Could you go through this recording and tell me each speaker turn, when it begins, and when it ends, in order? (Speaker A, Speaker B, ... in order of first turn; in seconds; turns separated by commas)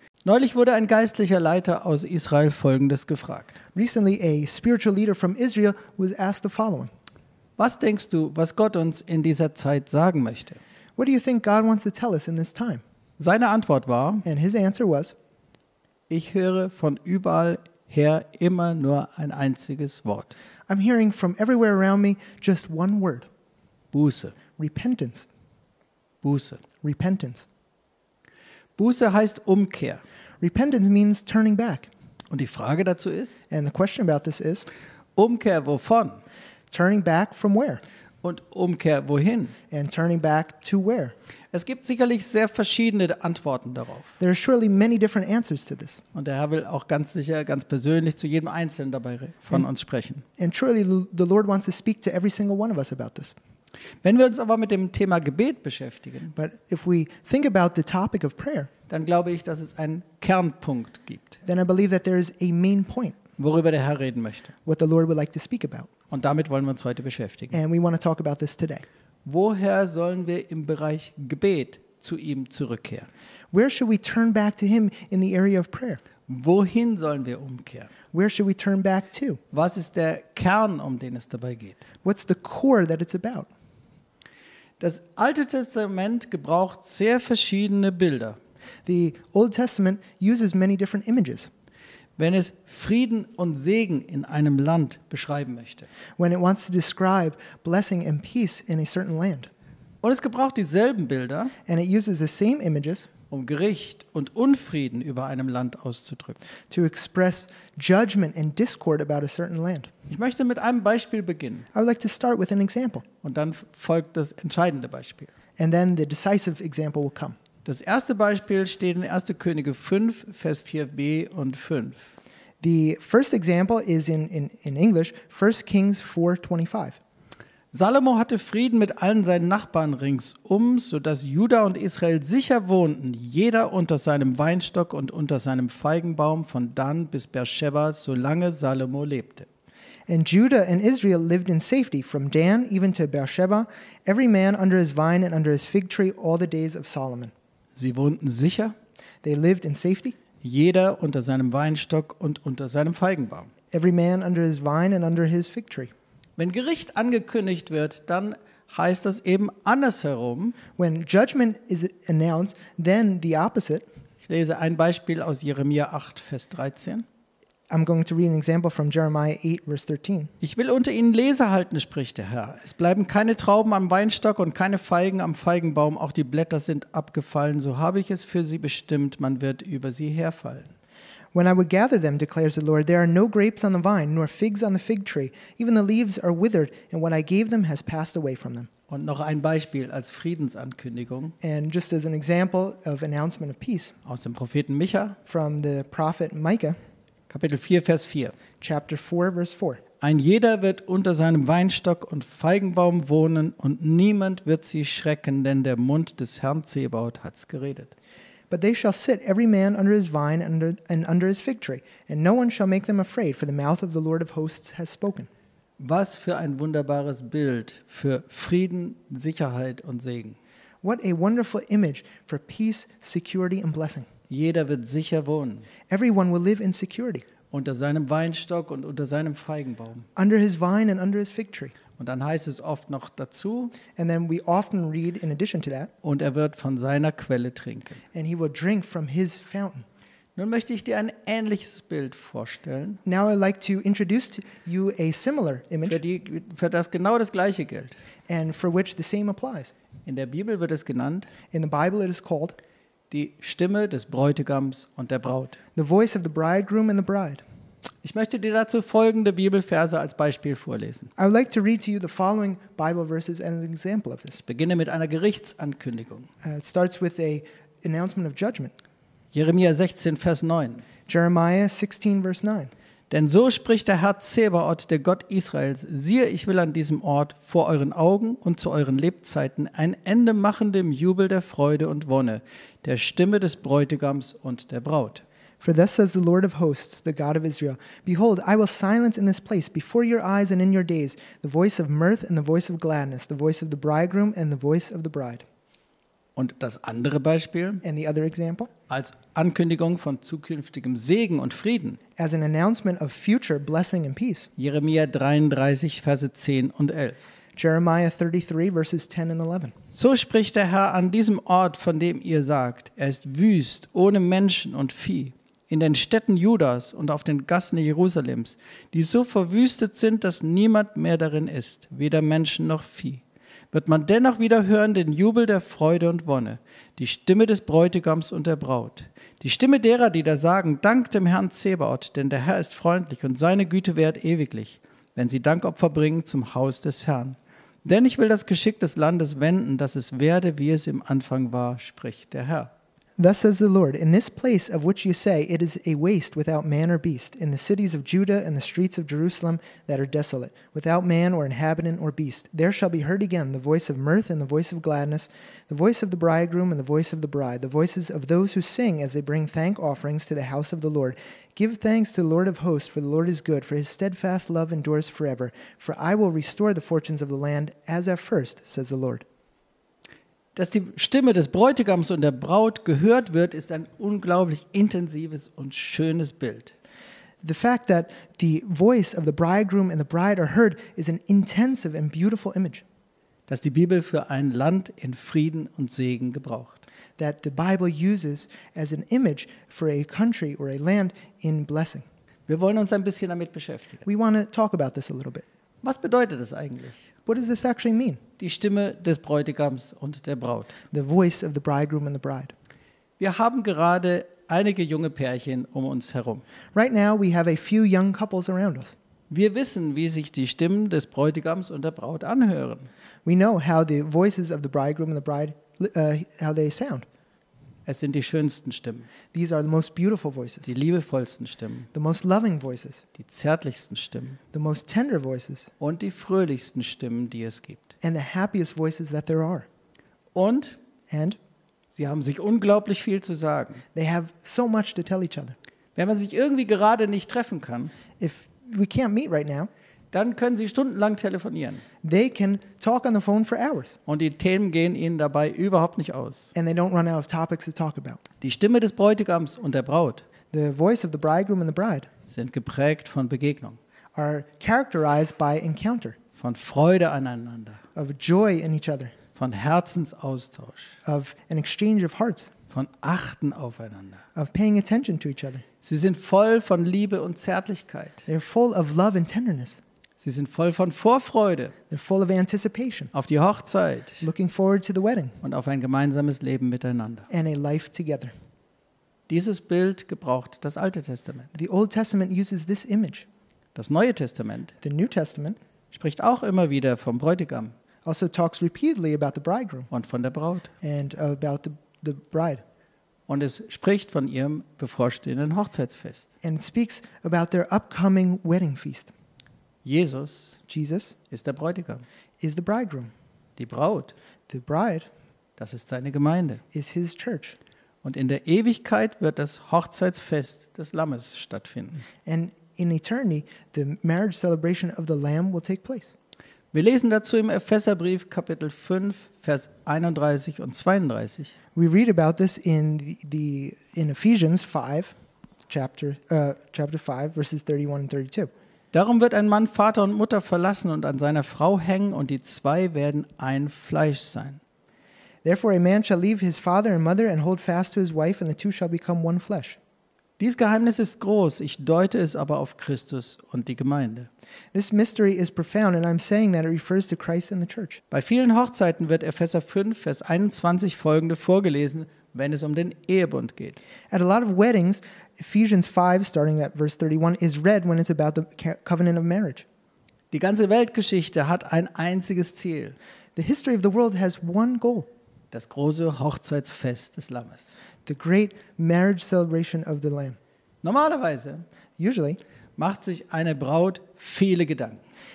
Speaker A: 0.2-3.6, Speaker B: 3.8-6.9, Speaker A: 7.6-10.6, Speaker B: 11.0-12.8, Speaker A: 13.2-14.3, Speaker B: 14.2-15.2, Speaker A: 16.1-20.4, Speaker B: 20.7-23.3, Speaker A: 23.9-24.4, Speaker B: 24.6-25.3, Speaker A: 26.2-26.6, Speaker B: 26.8-27.5, Speaker A: 28.8-30.0, Speaker B: 30.4-31.9, Speaker A: 32.3-33.5, Speaker B: 33.5-34.7, Speaker A: 35.2-36.2, Speaker B: 36.7-37.8, Speaker A: 38.2-39.6, Speaker B: 39.7-41.1, Speaker A: 41.5-44.2, Speaker B: 44.2-46.0, Speaker A: 46.1-50.2, Speaker B: 50.4-53.4, Speaker A: 54.0-56.3, Speaker B: 56.4-58.7, Speaker A: 58.9-61.4, Speaker B: 61.4-63.2, Speaker A: 63.4-64.5, Speaker B: 64.7-65.9, Speaker A: 66.1-67.6, Speaker B: 67.5-68.8, Speaker A: 69.2-73.1, Speaker B: 73.5-76.0, Speaker A: 76.3-77.9, Speaker B: 78.1-79.4, Speaker A: 79.5-81.8, Speaker B: 82.0-83.5, Speaker A: 84.8-88.4, Speaker B: 88.9-91.5, Speaker A: 92.2-95.9, Speaker B: 96.2-99.5, Speaker A: 100.0-101.5, Speaker B: 101.7-103.1, Speaker A: 103.3-106.4, Speaker B: 106.7-109.9, Speaker A: 110.1-111.7, Speaker B: 111.7-113.0, Speaker A: 113.2-115.3, Speaker B: 115.6-117.4, Speaker A: 117.7-122.1, Speaker B: 122.6-127.0, Speaker A: 127.7-139.5, Speaker B: 140.1-147.3, Speaker A: 147.8-148.8, Speaker B: 149.2-150.2, Speaker A: 150.4-153.5, Speaker B: 153.7-155.9, Speaker A: 156.4-160.6, Speaker B: 160.8-163.9, Speaker A: 164.2-167.1, Speaker B: 167.7-170.3, Speaker A: 170.4-180.7, Speaker B: 181.3-188.7, Speaker A: 188.9-191.4, Speaker B: 191.4-193.9, Speaker A: 194.1-195.2, Speaker B: 195.3-196.8, Speaker A: 197.3-198.3, Speaker B: 198.6-199.8, Speaker A: 200.0-207.9, Speaker B: 208.5-215.3, Speaker A: 215.8-220.4, Speaker B: 220.8-224.1, Speaker A: 224.3-225.7, Speaker B: 225.9-227.2, Speaker A: 227.5-230.1, Speaker B: 230.2-231.8, Speaker A: 232.0-233.8, Speaker B: 234.0-235.9, Speaker A: 236.0-238.0, Speaker B: 238.1-239.9, Speaker A: 240.4-243.0, Speaker B: 243.1-246.0, Speaker A: 245.8-248.0, Speaker B: 248.3-249.7, Speaker A: 250.1-251.3, Speaker B: 251.5-252.6, Speaker A: 253.1-255.6, Speaker B: 255.8-257.4, Speaker A: 258.0-261.1, Speaker B: 261.2-264.4, Speaker A: 264.5-266.3, Speaker B: 266.4-268.8, Speaker A: 269.3-270.9, Speaker B: 271.1-272.7, Speaker A: 273.1-285.2, Speaker B: 285.6-295.4, Speaker A: 296.4-297.8, Speaker B: 297.8-298.7, Speaker A: 298.9-302.0, Speaker B: 302.2-304.5, Speaker A: 304.6-307.3, Speaker B: 307.6-309.7, Speaker A: 309.9-342.7, Speaker B: 343.2-369.2, Speaker A: 370.6-376.7, Speaker B: 377.4-382.8, Speaker A: 383.5-386.8, Speaker B: 387.2-392.1, Speaker A: 392.5-394.0, Speaker B: 394.1-395.5, Speaker A: 395.8-397.1, Speaker B: 397.3-398.2, Speaker A: 398.4-400.8, Speaker B: 400.9-402.5, Speaker A: 403.2-406.4, Speaker B: 406.7-408.9, Speaker A: 409.3-412.9, Speaker B: 413.2-417.1, Speaker A: 417.9-419.1, Speaker B: 419.3-420.7, Speaker A: 420.6-421.9, Speaker B: 421.9-423.1, Speaker A: 423.1-424.4, Speaker B: 424.5-425.7, Speaker A: 425.8-427.8, Speaker B: 428.0-429.7, Speaker A: 430.4-430.8, Speaker B: 431.1-431.4, Speaker A: 432.0-433.8, Speaker B: 433.9-435.6, Speaker A: 436.0-437.9, Speaker B: 438.2-439.7, Speaker A: 440.1-441.8, Speaker B: 442.0-444.0, Speaker A: 444.1-446.5, Speaker B: 446.6-448.2, Speaker A: 448.4-450.2, Speaker B: 450.5-452.1, Speaker A: 452.3-453.8, Speaker B: 454.1-456.2, Speaker A: 456.4-457.8, Speaker B: 457.9-459.1, Speaker A: 459.4-461.0, Speaker B: 461.1-462.5, Speaker A: 462.7-464.2, Speaker B: 464.4-465.6, Speaker A: 465.8-468.3, Speaker B: 468.3-469.8, Speaker A: 470.2-471.8, Speaker B: 471.9-473.1, Speaker A: 473.1-474.2, Speaker B: 474.2-475.4, Speaker A: 475.4-477.3, Speaker B: 477.3-478.3, Speaker A: 479.3-481.5, Speaker B: 481.5-483.3, Speaker A: 483.8-484.7, Speaker B: 484.8-485.6, Speaker A: 485.9-487.8, Speaker B: 488.1-489.9, Speaker A: 489.9-490.7, Speaker B: 490.8-492.6, Speaker A: 493.3-496.3, Speaker B: 496.4-499.1, Speaker A: 499.9-500.6, Speaker B: 500.7-501.1, Speaker A: 501.3-502.1, Speaker B: 502.4-503.1, Speaker A: 503.6-504.1, Speaker B: 504.5-505.1, Speaker A: 505.6-506.6, Speaker B: 506.7-507.6, Speaker A: 508.0-512.0, Speaker B: 512.2-516.1, Speaker A: 516.7-521.5, Speaker B: 521.8-525.2, Speaker B: 525.7-528.5, Speaker A: 528.9-534.6, Speaker B: 535.4-539.8, Speaker A: 540.4-544.3, Speaker B: 544.7-548.0, Speaker A: 548.1-553.8, Speaker B: 554.1-559.6, Speaker A: 560.3-563.0, Speaker B: 563.4-565.1, Speaker A: 565.5-567.8, Speaker B: 568.0-570.4, Speaker A: 570.8-571.6, Speaker B: 572.0-572.4, Speaker A: 572.8-575.0